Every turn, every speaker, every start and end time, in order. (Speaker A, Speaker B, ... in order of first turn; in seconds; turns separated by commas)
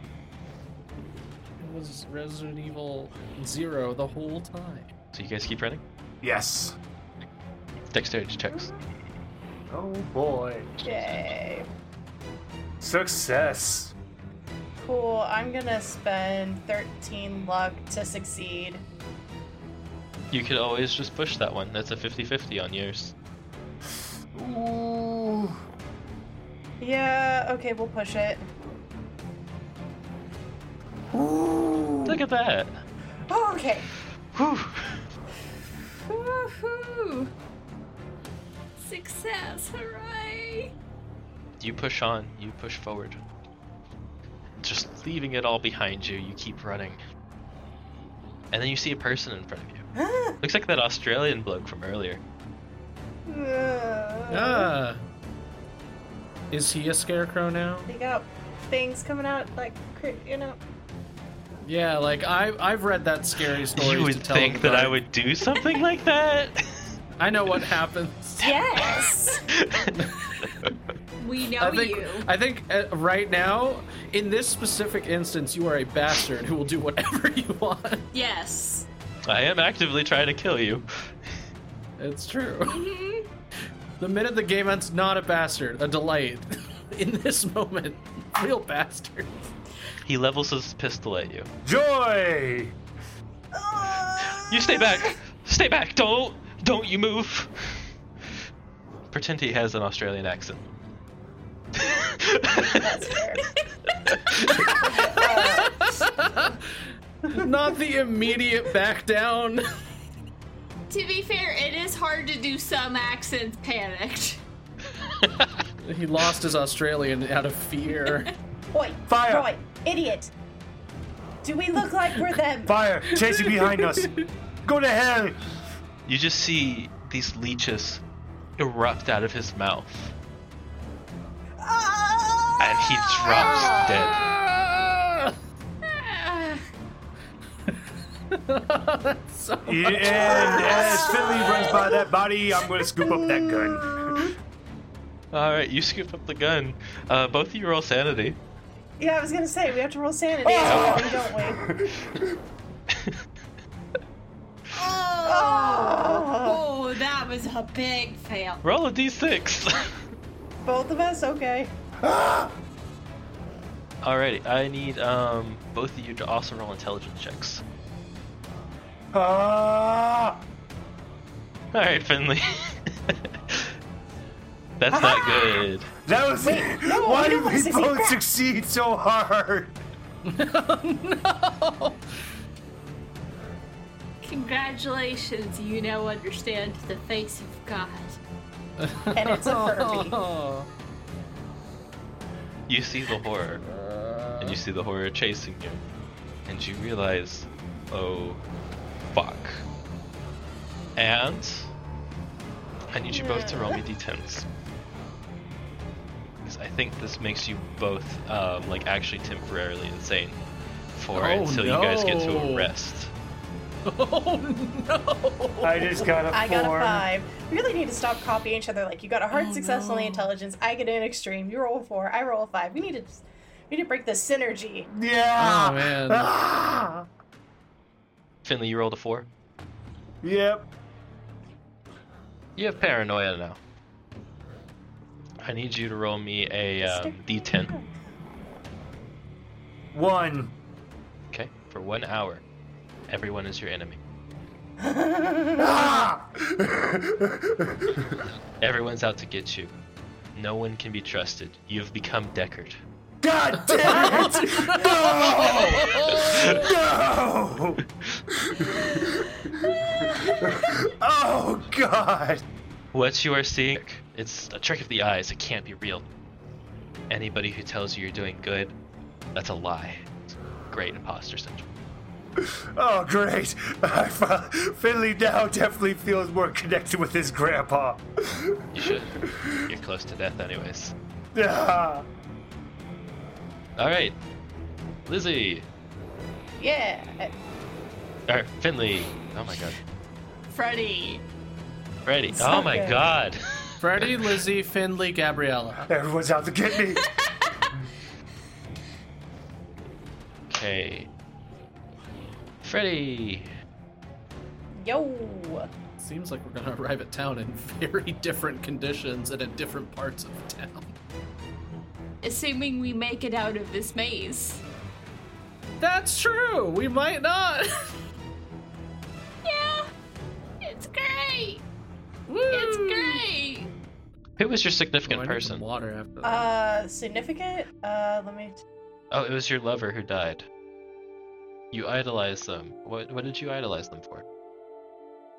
Speaker A: 1.6-4.9, Speaker B: 5.1-5.8, Speaker C: 6.2-6.8, Speaker B: 7.8-8.7, Speaker C: 9.7-10.8, Speaker D: 10.8-11.7, Speaker C: 12.8-13.9, Speaker D: 14.8-18.8, Speaker B: 20.3-23.1, Speaker C: 24.3-25.6, Speaker D: 26.8-28.4, Speaker C: 31.1-32.2, Speaker B: 32.0-32.8, Speaker D: 33.3-33.9, Speaker B: 34.3-35.0, Speaker E: 36.0-37.3, Speaker E: 38.8-40.7, Speaker B: 41.6-43.2, Speaker B: 44.6-47.0, Speaker B: 48.5-49.9, Speaker D: 49.9-50.4, Speaker B: 50.4-52.2, Speaker D: 53.2-54.7, Speaker A: 54.3-55.0, Speaker A: 56.5-57.9, Speaker D: 57.9-60.6, Speaker A: 61.6-65.0, Speaker B: 63.8-66.6, Speaker A: 67.2-68.6, Speaker D: 68.4-69.4, Speaker E: 68.7-69.3, Speaker B: 69.5-70.0, Speaker A: 69.9-70.2, Speaker E: 71.2-72.3, Speaker A: 71.6-78.0, Speaker E: 78.1-78.9, Speaker B: 79.3-80.9, Speaker A: 82.0-82.8, Speaker E: 82.6-83.3, Speaker A: 84.0-89.3, Speaker B: 90.0-91.5, Speaker C: 91.6-92.7, Speaker D: 93.5-95.0, Speaker B: 94.2-97.8, Speaker B: 99.1-100.6, Speaker B: 101.8-103.1, Speaker D: 102.6-103.4, Speaker A: 104.4-109.7, Speaker D: 104.8-105.7, Speaker E: 104.9-106.0, Speaker E: 110.9-114.4, Speaker B: 115.2-115.5, Speaker A: 115.8-118.3, Speaker E: 118.0-118.3, Speaker D: 118.7-120.3, Speaker C: 119.1-119.5, Speaker D: 121.4-122.8, Speaker C: 122.7-124.1, Speaker A: 123.1-124.3, Speaker C: 124.6-125.4, Speaker B: 126.0-128.0, Speaker B: 128.6-130.1, Speaker D: 131.6-133.8, Speaker B: 132.6-134.3, Speaker A: 133.8-135.3, Speaker E: 135.9-136.6, Speaker A: 137.7-140.8, Speaker C: 139.7-144.3, Speaker D: 140.2-141.9, Speaker E: 140.5-141.7, Speaker D: 142.9-144.3, Speaker B: 145.3-148.4, Speaker D: 149.0-151.6, Speaker C: 150.4-152.3, Speaker B: 150.7-150.9, Speaker B: 152.9-153.2, Speaker E: 154.7-158.6, Speaker D: 155.2-156.6, Speaker B: 158.6-159.9, Speaker D: 160.6-161.7, Speaker C: 162.0-162.5, Speaker B: 164.0-167.6, Speaker C: 169.1-170.4, Speaker B: 171.7-173.7, Speaker B: 174.8-175.9, Speaker C: 174.9-175.4, Speaker C: 176.0-179.7, Speaker D: 176.4-178.2, Speaker A: 180.2-182.0, Speaker E: 184.2-188.2, Speaker A: 188.8-190.7, Speaker D: 189.1-190.2, Speaker B: 192.7-193.6, Speaker A: 193.6-194.6, Speaker B: 194.4-195.8, Speaker B: 196.5-198.4, Speaker B: 199.1-199.6, Speaker B: 200.9-201.7, Speaker B: 202.9-204.5, Speaker D: 203.1-203.8, Speaker B: 206.4-210.4, Speaker B: 210.9-213.1, Speaker A: 211.1-212.7, Speaker A: 213.8-216.1, Speaker C: 215.6-217.0, Speaker D: 216.3-224.9, Speaker A: 219.3-220.3, Speaker C: 224.9-227.0, Speaker A: 225.3-226.3, Speaker B: 228.4-229.3, Speaker C: 230.2-230.7, Speaker B: 232.6-233.6, Speaker B: 235.4-237.7, Speaker D: 236.8-238.1, Speaker C: 239.9-240.5, Speaker B: 241.3-242.4, Speaker B: 243.1-244.0, Speaker D: 244.8-246.1, Speaker C: 245.6-248.2, Speaker B: 248.6-249.7, Speaker B: 250.3-252.8, Speaker C: 253.2-259.3, Speaker A: 253.6-256.7, Speaker B: 256.1-256.5, Speaker C: 260.0-262.4, Speaker B: 262.9-266.1, Speaker B: 267.1-268.7, Speaker B: 269.3-271.7, Speaker C: 272.4-279.7, Speaker B: 278.7-280.9, Speaker C: 281.3-282.1, Speaker B: 283.8-284.1, Speaker B: 285.1-285.6, Speaker D: 286.6-287.3, Speaker B: 288.3-289.8, Speaker E: 290.5-291.2, Speaker B: 292.0-293.4, Speaker D: 292.3-293.0, Speaker A: 293.8-295.9, Speaker B: 293.9-294.3, Speaker C: 295.9-297.0, Speaker E: 296.9-297.5, Speaker B: 300.5-301.1, Speaker B: 302.6-303.5, Speaker D: 304.8-305.7, Speaker A: 306.0-310.9, Speaker E: 312.2-314.6, Speaker A: 315.8-317.9, Speaker E: 319.4-319.9, Speaker E: 320.6-321.6, Speaker A: 322.3-323.2, Speaker E: 322.5-323.7, Speaker B: 324.4-325.6, Speaker A: 325.1-326.5, Speaker D: 326.2-328.6, Speaker B: 329.1-330.5, Speaker B: 331.7-334.2